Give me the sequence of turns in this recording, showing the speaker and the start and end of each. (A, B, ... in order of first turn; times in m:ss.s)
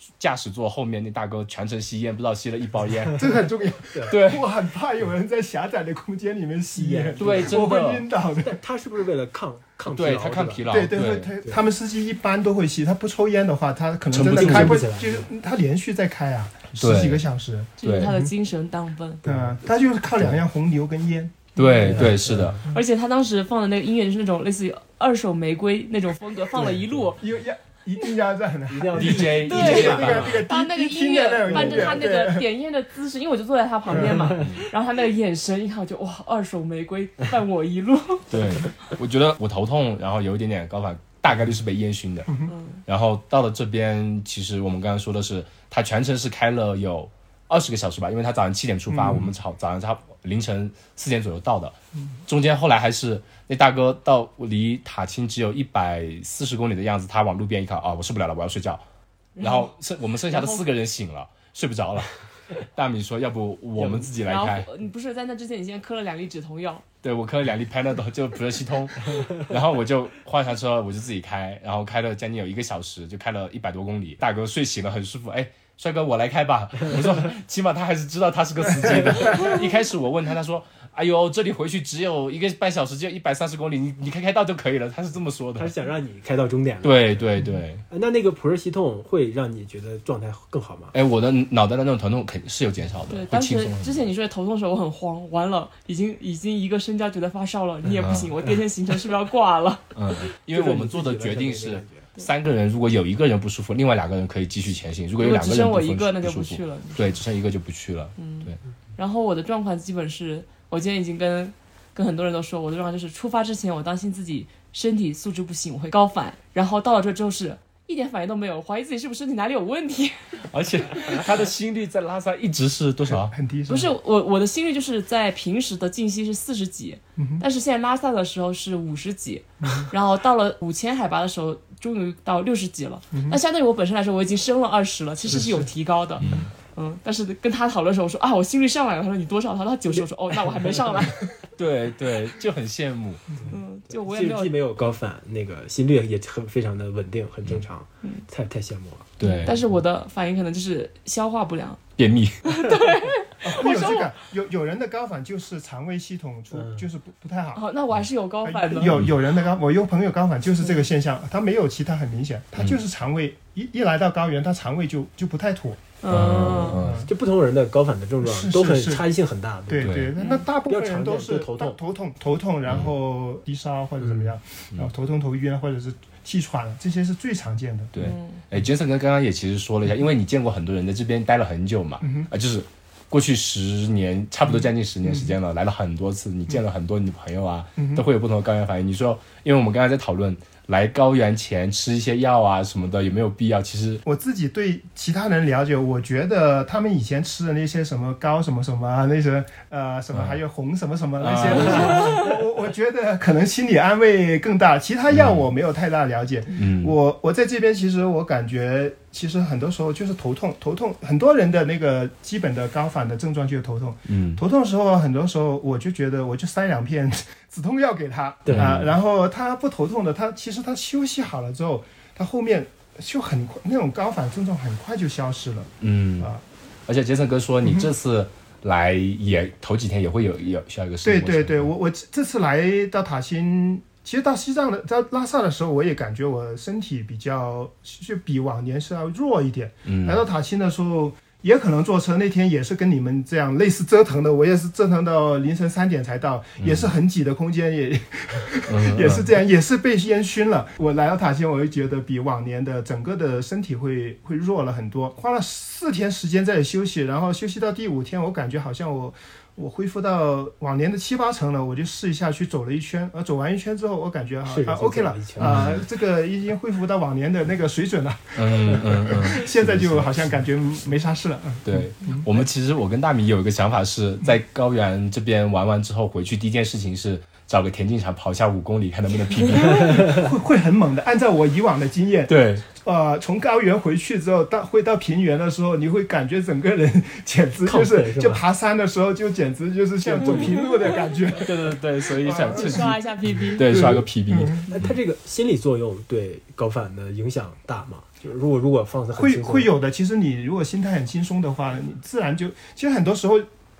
0:00.2-0:03.2 A
0:03.2-0:08.6 B
0:04.1-0:04.5 A
0:06.7-0:07.6 C
0:07.2-0:08.0 A
0:08.3-0:10.6 C
0:09.9-0:11.3 A
0:10.7-0:18.3 B
0:14.1-0:14.7 A
0:14.2-0:15.3 C
0:16.7-0:17.2 A
0:17.8-0:19.2 D
0:17.8-0:18.1 A
0:19.2-0:19.6 C
0:19.3-0:21.5 B
0:21.6-0:22.0 D
0:21.6-0:22.6 A
0:21.8-0:22.6 C
0:22.7-0:27.2 D
0:26.6-0:27.2 C
0:27.2-0:32.4 B
0:28.7-0:30.4 C
0:29.0-0:30.4 A
0:29.5-0:38.8 D
0:31.5-0:32.0 C
0:33.9-0:34.2 B
0:34.0-0:34.5 C
0:34.3-0:34.6 A
0:38.3-0:42.3 A
0:42.3-0:42.5 B
0:42.5-0:42.8 D
0:42.9-0:51.8 A
0:48.9-0:49.3 B
0:52.3-0:58.8 A
0:59.4-1:00.6 D
0:59.4-1:04.7 A
1:03.8-1:04.1 C
1:04.2-1:06.8 D
1:07.0-1:25.7 A
1:25.6-1:31.0 C
1:26.8-1:27.8 A
1:30.9-1:34.0 A
1:33.1-1:39.9 D
1:38.0-1:38.3 A
1:40.0-1:48.6 A
1:40.5-1:42.1 C
1:45.2-1:47.2 D
1:48.2-2:01.2 D
2:00.5-2:03.3 A
2:03.1-2:03.9 B
2:03.7-2:21.4 D
2:07.2-2:07.4 B
2:09.6-2:09.9 B
2:13.1-2:13.4 B
2:15.3-2:15.7 B
2:16.2-2:16.5 A
2:21.6-2:23.2 A
2:23.4-2:29.1 C
2:23.5-2:24.5 D
2:29.2-2:29.6 A
2:29.2-2:31.8 D
2:32.0-2:32.5 A
2:32.4-2:34.2 D
2:33.4-2:37.7 B
2:36.5-2:36.9 C
2:37.5-2:39.0 D
2:38.4-2:45.9 B
2:46.0-2:46.8 D
2:46.1-2:47.0 A
2:46.7-2:47.1 B
2:47.0-2:50.0 C
2:48.2-2:49.1 B
2:49.7-2:57.9 B
2:49.8-2:50.1 A
2:50.2-2:50.4 D
2:50.6-2:51.8 C
2:52.7-2:52.9 A
2:54.0-2:54.4 C
2:57.9-3:14.0 A
2:58.0-2:58.4 D
3:02.0-3:02.3 B
3:04.5-3:05.4 B
3:07.8-3:08.0 B
3:14.0-3:46.4 B
3:20.1-3:20.4 A
3:21.2-3:21.9 A
3:21.6-3:22.2 D
3:25.1-3:25.4 A
3:26.6-3:27.0 A
3:34.1-3:34.4 A
3:38.5-3:38.7 C
3:38.5-3:38.9 A
3:45.8-3:46.3 A
3:46.9-3:51.7 A
3:47.6-3:47.9 B
3:51.0-4:32.2 B
3:59.8-4:00.3 A
4:06.6-4:07.0 A
4:08.7-4:09.3 A
4:24.5-4:25.6 C
4:25.4-4:25.8 A
4:28.4-4:30.3 A
4:31.6-4:39.9 A
4:39.8-4:53.0 B
4:42.3-4:42.6 A
4:47.6-4:48.4 C
4:51.4-4:53.0 A
4:52.5-4:53.7 D
4:53.6-4:54.9 A
4:53.6-4:54.7 B
4:54.7-4:59.7 C
4:59.2-5:03.5 B